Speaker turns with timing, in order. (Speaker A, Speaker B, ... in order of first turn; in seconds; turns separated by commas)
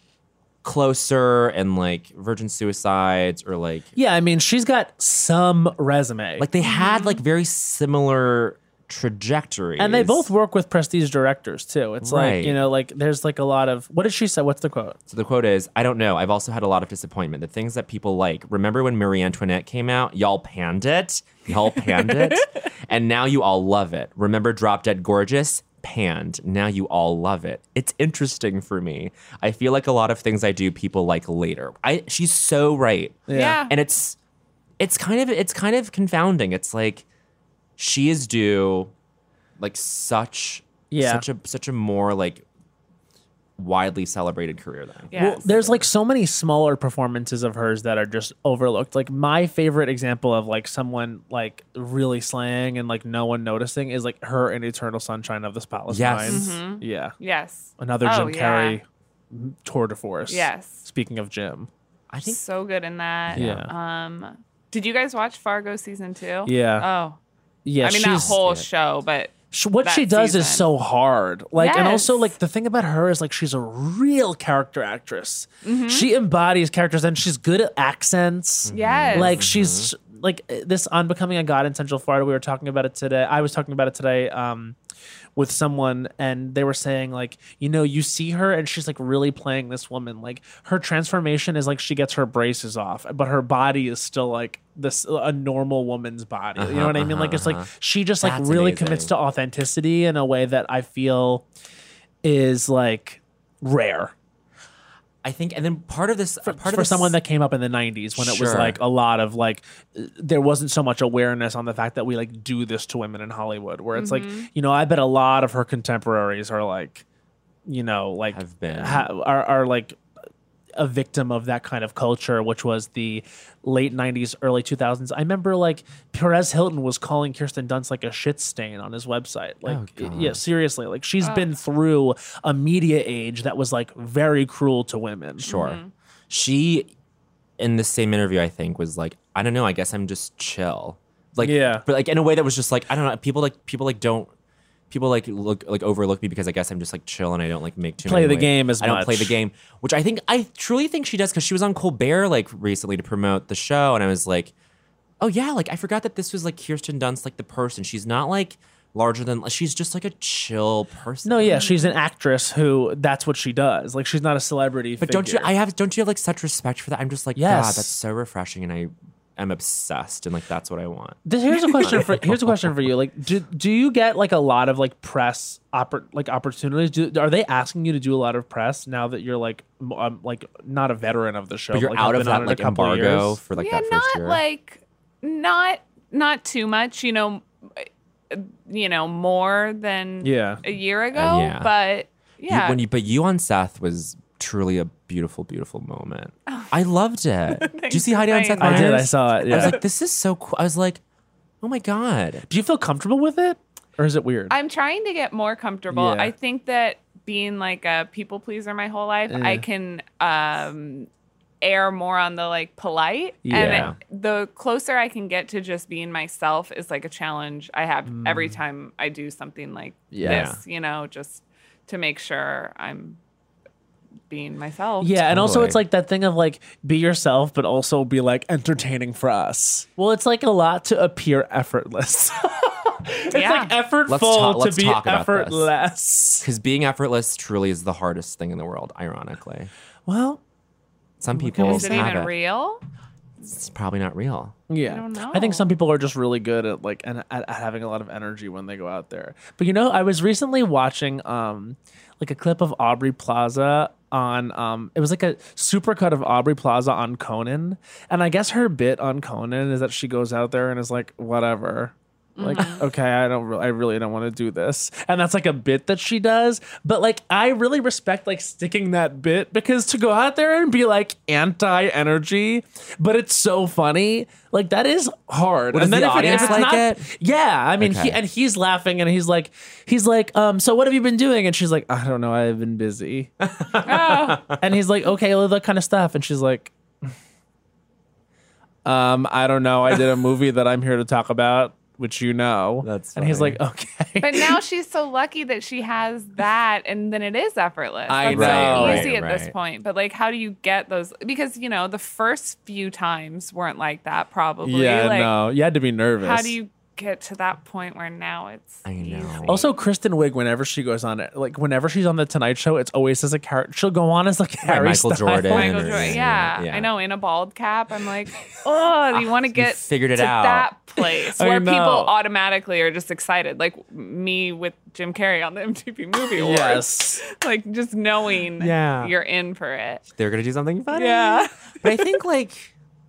Speaker A: 0.6-3.9, Speaker B: 4.0-6.5, Speaker A: 6.4-10.3, Speaker C: 6.6-7.2, Speaker B: 9.8-15.0, Speaker A: 12.0-12.6, Speaker A: 15.1-34.2, Speaker C: 21.8-22.4, Speaker B: 33.3-33.6, Speaker C: 33.3-33.7, Speaker A: 34.8-37.0, Speaker A: 37.8-38.9, Speaker A: 39.6-42.4, Speaker B: 40.9-41.2, Speaker A: 43.6-45.1, Speaker C: 45.1-45.8, Speaker B: 45.1-57.1, Speaker A: 55.9-56.6, Speaker C: 56.3-58.8, Speaker B: 57.8-61.7, Speaker C: 60.3-60.9, Speaker A: 62.1-62.4, Speaker C: 62.2-67.2, Speaker A: 63.3-63.7, Speaker B: 63.3-63.7, Speaker B: 66.5-66.8, Speaker B: 67.6-68.3, Speaker C: 67.8-70.7, Speaker A: 68.1-68.7, Speaker B: 69.5-84.8, Speaker C: 71.5-72.3, Speaker C: 75.6-76.1, Speaker A: 78.6-79.9, Speaker C: 78.7-79.4, Speaker B: 85.3-101.5, Speaker A: 96.5-97.7, Speaker A: 98.2-99.1, Speaker B: 102.2-104.1, Speaker A: 105.2-107.2, Speaker B: 106.4-117.0, Speaker A: 108.2-108.8, Speaker C: 113.9-114.5, Speaker B: 117.7-120.0, Speaker A: 118.3-119.1, Speaker B: 120.8-135.5, Speaker A: 129.6-130.4, Speaker C: 131.2-131.5, Speaker C: 135.4-135.9, Speaker A: 135.5-136.9, Speaker A: 137.6-144.3, Speaker B: 141.4-141.8, Speaker A: 144.9-154.5, Speaker B: 148.0-149.3, Speaker A: 155.2-161.7, Speaker B: 161.2-165.5, Speaker C: 161.5-161.9, Speaker A: 165.0-171.2, Speaker B: 167.3-167.9, Speaker B: 171.2-183.4, Speaker A: 171.7-172.9, Speaker A: 181.7-184.4, Speaker C: 183.6-192.8, Speaker B: 190.2-190.6, Speaker A: 191.1-191.7, Speaker A: 192.5-201.0, Speaker C: 196.5-196.7, Speaker C: 197.5-199.1, Speaker B: 198.6-199.7, Speaker A: 201.6-202.4, Speaker B: 202.5-204.5, Speaker C: 204.5-211.1, Speaker B: 205.9-206.3, Speaker B: 209.3-209.6, Speaker C: 211.6-223.2, Speaker B: 213.4-213.9, Speaker A: 213.5-214.0, Speaker B: 218.1-218.6, Speaker B: 220.1-220.5, Speaker A: 220.2-220.6, Speaker C: 224.3-225.2, Speaker B: 225.0-236.4, Speaker A: 225.3-225.8, Speaker C: 233.3-233.7, Speaker A: 234.1-235.7, Speaker A: 236.4-239.7, Speaker B: 240.1-240.4, Speaker A: 241.2-242.3, Speaker B: 241.3-242.1, Speaker C: 241.6-242.8, Speaker A: 243.4-244.5, Speaker B: 244.7-283.3, Speaker C: 244.8-245.7, Speaker C: 262.4-262.9, Speaker A: 275.7-277.1, Speaker C: 276.2-276.6, Speaker A: 277.8-278.2, Speaker A: 283.4-284.6, Speaker C: 283.8-284.4, Speaker B: 284.6-286.7, Speaker B: 288.8-294.6, Speaker A: 292.8-293.6, Speaker C: 294.2-305.3, Speaker B: 298.1-299.1, Speaker A: 298.2-299.5, Speaker B: 304.6-306.5, Speaker C: 306.2-309.7, Speaker A: 308.8-309.6, Speaker B: 309.4-316.1, Speaker A: 314.6-316.9, Speaker C: 315.5-330.0, Speaker A: 319.1-320.7, Speaker B: 321.0-322.1, Speaker B: 326.4-327.2, Speaker A: 328.6-329.1, Speaker A: 330.1-332.7, Speaker C: 330.9-332.0